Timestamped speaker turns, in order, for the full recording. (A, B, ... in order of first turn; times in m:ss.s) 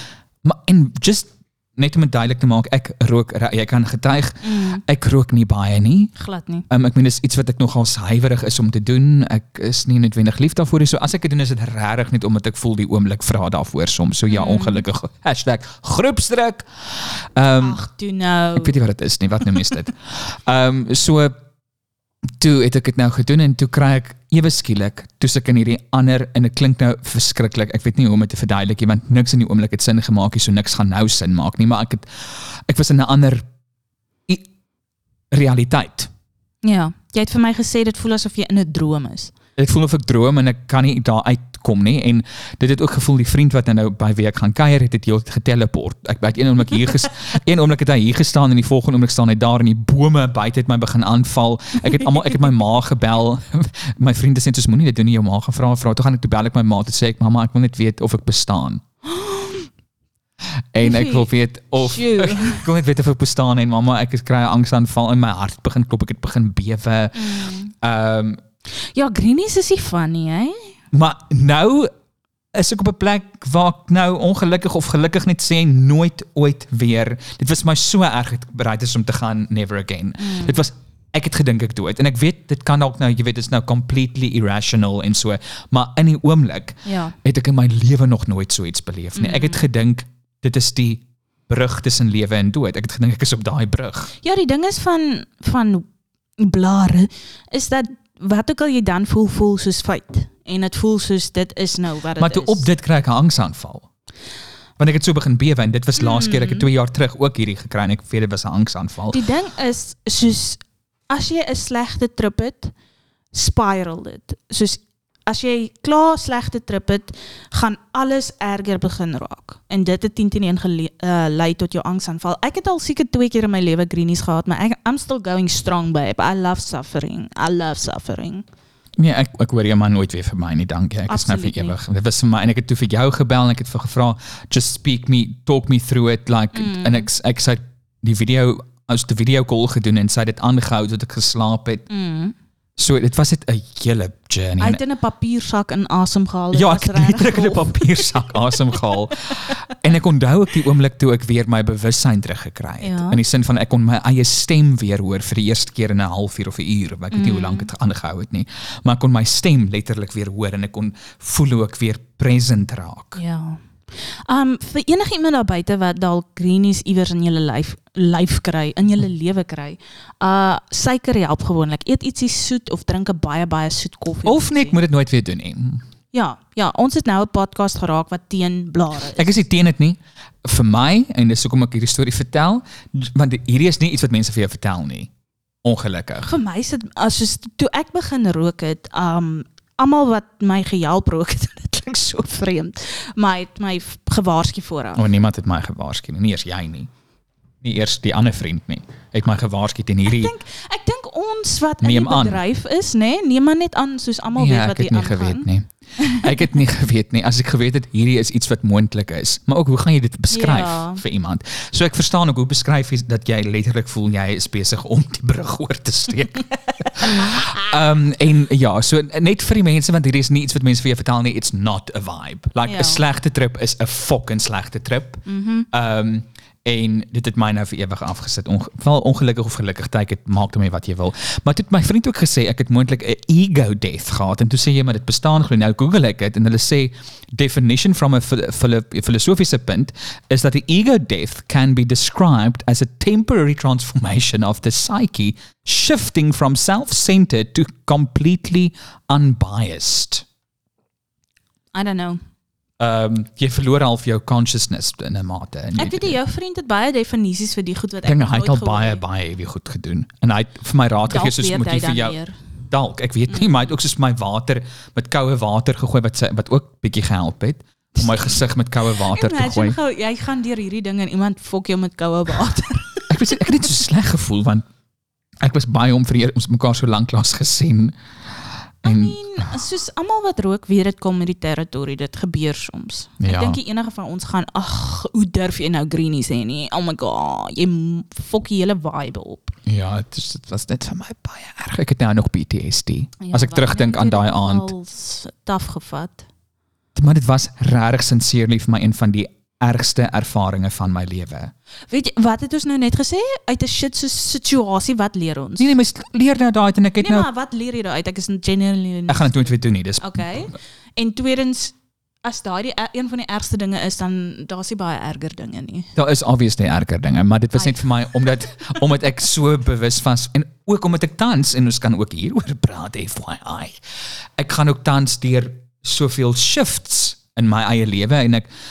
0:00.4-0:06.1 A
0:04.4-0:04.8 B
0:06.2-0:06.7 B
0:06.7-0:17.8 A
0:14.3-0:14.8 B
0:17.6-0:18.8 B
0:18.6-0:21.4 A
0:22.4-0:33.5 A
0:35.3-0:36.1 A
0:36.6-0:39.3 B
0:39.6-0:58.8 A
0:59.0-0:59.7 B
1:00.7-1:08.4 A
1:00.8-1:02.6 B
1:07.2-1:07.7 B
1:08.9-1:10.8 B
1:10.9-1:11.9 A
1:12.5-1:34.1 A
1:20.2-1:20.6 B
1:26.8-1:27.2 B
1:29.2-1:29.6 B
1:34.2-1:35.9 B
1:36.4-1:42.7 B
1:42.2-1:43.9 A
1:44.8-1:49.2 A
1:46.0-1:46.7 B
1:49.1-1:52.7 B
1:53.3-2:08.4 B
2:09.0-2:21.8 A
2:11.1-2:11.8 B
2:16.5-2:17.1 B
2:21.9-2:22.4 B
2:22.8-2:24.8 A
2:24.6-2:28.6 B
2:26.5-2:43.2 A
2:32.8-2:33.2 B
2:37.1-2:37.7 B
2:43.2-2:54.8 B
2:54.2-2:55.8 A
2:56.1-2:59.4 B
2:59.2-3:05.1 A
3:05.6-3:06.3 A
3:06.2-3:15.0 B
3:15.0-3:16.9 A
3:17.6-3:20.3 A
3:20.1-3:25.5 B
3:21.8-3:22.4 A
3:24.4-4:10.2 A
3:26.0-3:26.4 B
3:30.3-3:31.0 B
3:37.0-3:37.3 B
3:42.7-3:43.0 B
3:45.3-3:45.7 B
4:11.7-4:12.2 B
4:12.8-4:16.2 A
4:15.8-4:19.0 B
4:18.0-4:22.2 A
4:21.1-4:22.4 B
4:22.7-4:29.8 A
4:23.3-4:23.6 B
4:28.0-4:28.4 B
4:28.9-4:33.1 B
4:33.1-4:34.6 A
4:35.4-4:38.0 A
4:38.8-4:39.2 A
4:38.8-4:49.5 B
4:43.2-4:43.6 A
4:49.7-4:54.7 A
4:53.2-4:56.3 B
4:57.0-5:01.5 A
5:01.9-5:05.8 B
5:05.6-5:07.3 A
5:07.0-5:15.9 B
5:09.1-5:10.4 A
5:16.0-5:23.8 A
5:17.6-5:17.9 B
5:24.4-5:28.5 A